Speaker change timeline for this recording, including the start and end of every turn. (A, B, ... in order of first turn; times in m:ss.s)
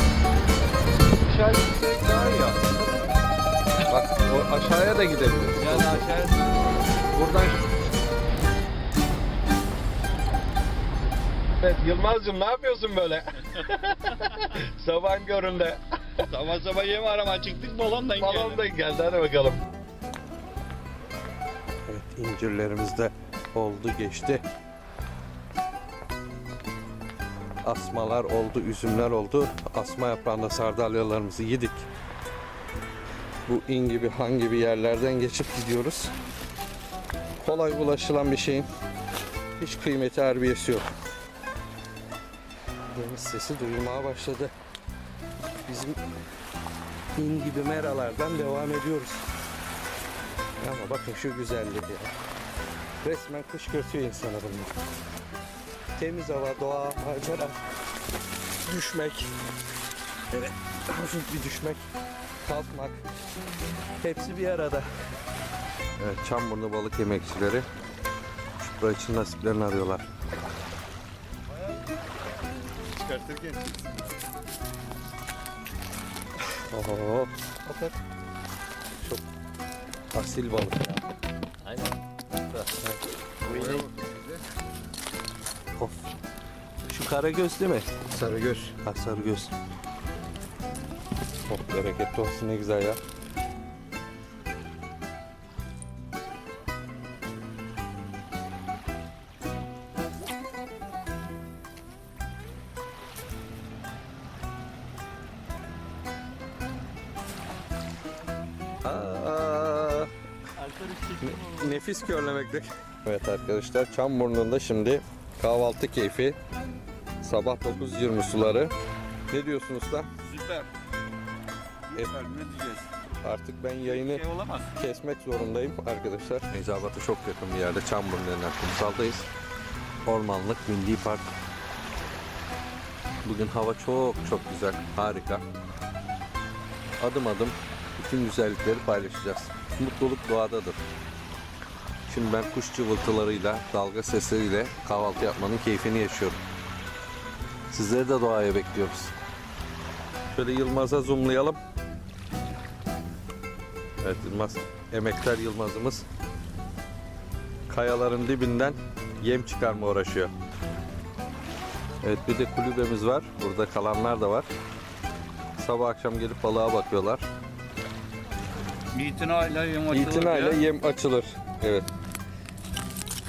0:01.2-0:02.9 A
0:03.9-0:06.1 B
0:05.6-0:06.5 A
0:07.2-0:07.6 A
0:07.2-0:07.5 B
0:11.6-0:13.3 B
0:13.6-0:14.7 A
0:14.2-0:15.8 B
0:16.2-0:18.8 A
0:18.2-0:19.6 B
0:21.9-0:24.4 B
0:27.6-0:31.9 B
0:33.5-0:36.2 B
0:37.4-0:38.7 B
0:39.6-0:40.9 B
0:42.9-0:44.5 B
0:45.7-0:46.0 B
0:47.2-0:49.3 B
0:50.6-0:52.1 B
0:53.0-0:54.8 B
0:56.0-0:57.6 B
0:58.6-0:59.3 B
1:00.3-1:01.8 B
1:02.4-1:03.0 B
1:04.0-1:04.9 B
1:06.0-1:07.7 B
1:08.6-1:10.1 B
1:12.9-1:14.1 A
1:16.6-1:17.9 B
1:20.1-1:20.9 B
1:21.6-1:21.9 A
1:22.7-1:23.9 B
1:23.5-1:24.0 A
1:25.8-1:26.1 B
1:26.8-1:29.5 B
1:31.5-1:33.0 B
1:48.8-1:50.1 B
1:50.6-1:51.6 A
1:51.2-1:56.4 B
1:57.2-1:58.7 B
1:59.3-2:00.1 B
2:00.2-2:00.7 A
2:01.9-2:02.9 A
2:03.2-2:09.3 B
2:03.9-2:04.7 A
2:10.0-2:11.3 B
2:13.2-2:15.4 B
2:17.0-2:20.8 B
2:22.1-2:26.4 B
2:27.7-2:29.1 B
2:30.3-2:31.6 B
2:34.0-2:36.1 B
2:37.7-2:40.3 B
2:42.0-2:44.5 B
2:45.6-2:47.3 B
2:48.9-2:50.6 A
2:49.9-2:51.9 B